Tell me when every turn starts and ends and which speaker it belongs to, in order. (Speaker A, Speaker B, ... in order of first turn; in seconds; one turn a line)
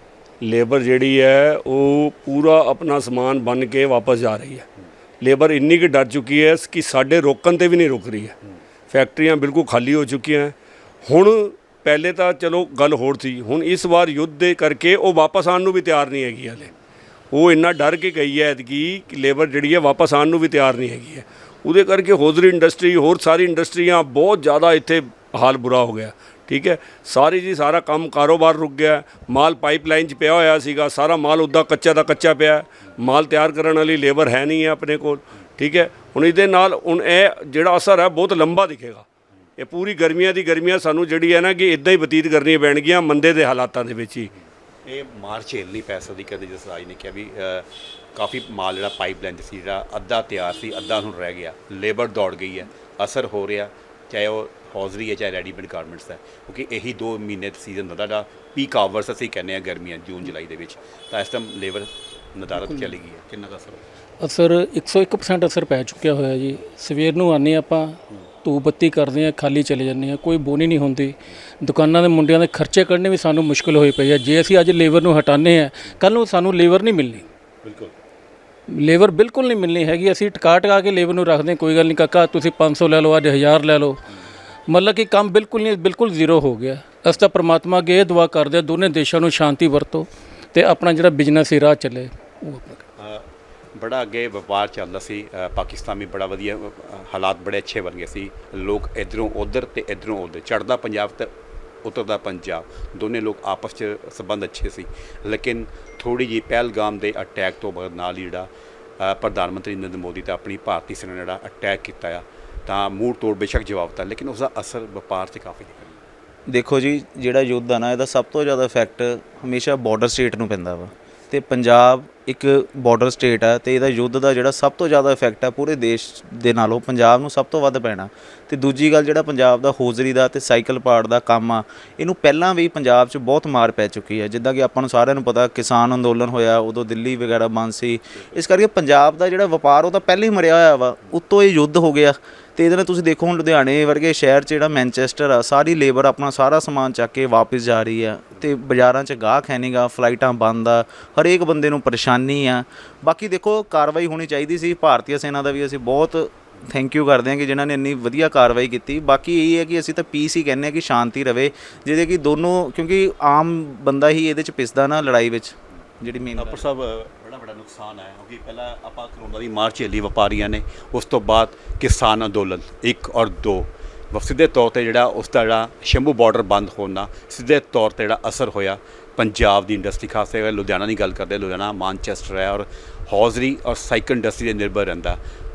Speaker A: 0.4-4.7
Speaker A: 5.2-8.3
Speaker A: 8.9-16.7
Speaker A: 17.3-39.0
Speaker A: 39.6-44.3
Speaker B: 44.9-63.8
Speaker C: 64.2-77.2
Speaker B: 77.6-77.9
Speaker C: 78.7-84.0
Speaker C: 84.7-92.8
Speaker B: 93.0-101.3
Speaker B: 101.8-108.5
Speaker B: 109.0-116.0
Speaker D: 116.5-166.6
Speaker B: 166.4-185.2